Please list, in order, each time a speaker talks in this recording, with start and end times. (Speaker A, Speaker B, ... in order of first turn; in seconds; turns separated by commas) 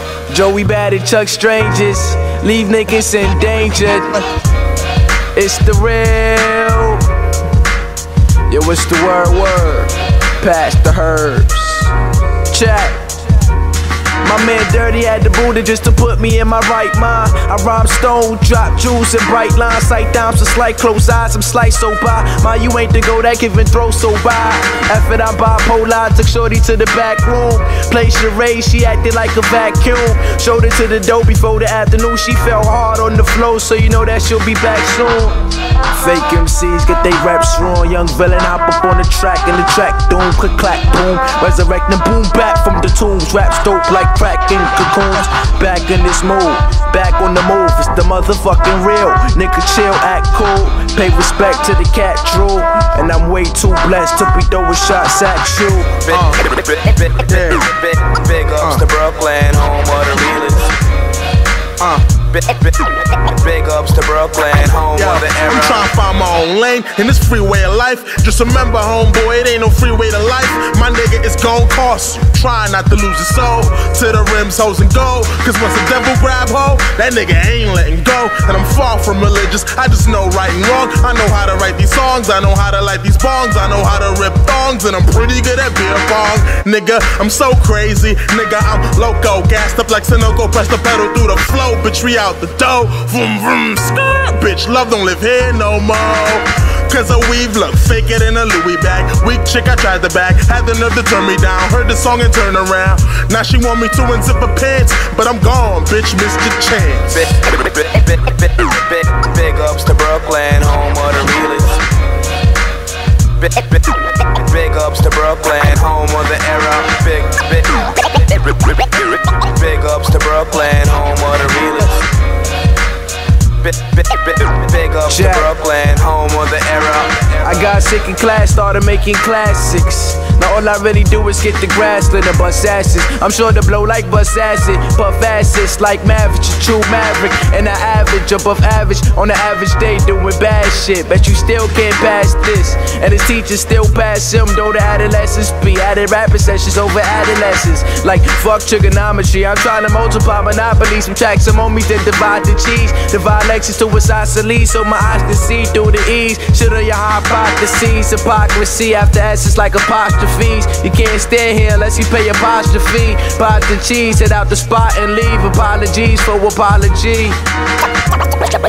Speaker A: 0.3-4.3, Speaker A: 5.3-7.0, Speaker A: 8.5-11.9, Speaker A: 12.5-13.2, Speaker A: 14.2-56.0, Speaker B: 56.0-60.8, Speaker C: 56.1-56.4, Speaker C: 57.3-57.7, Speaker B: 62.1-65.9, Speaker C: 65.0-107.3, Speaker B: 107.1-111.8, Speaker B: 113.4-122.0, Speaker B: 123.6-127.5, Speaker A: 125.1-125.5, Speaker A: 127.4-167.4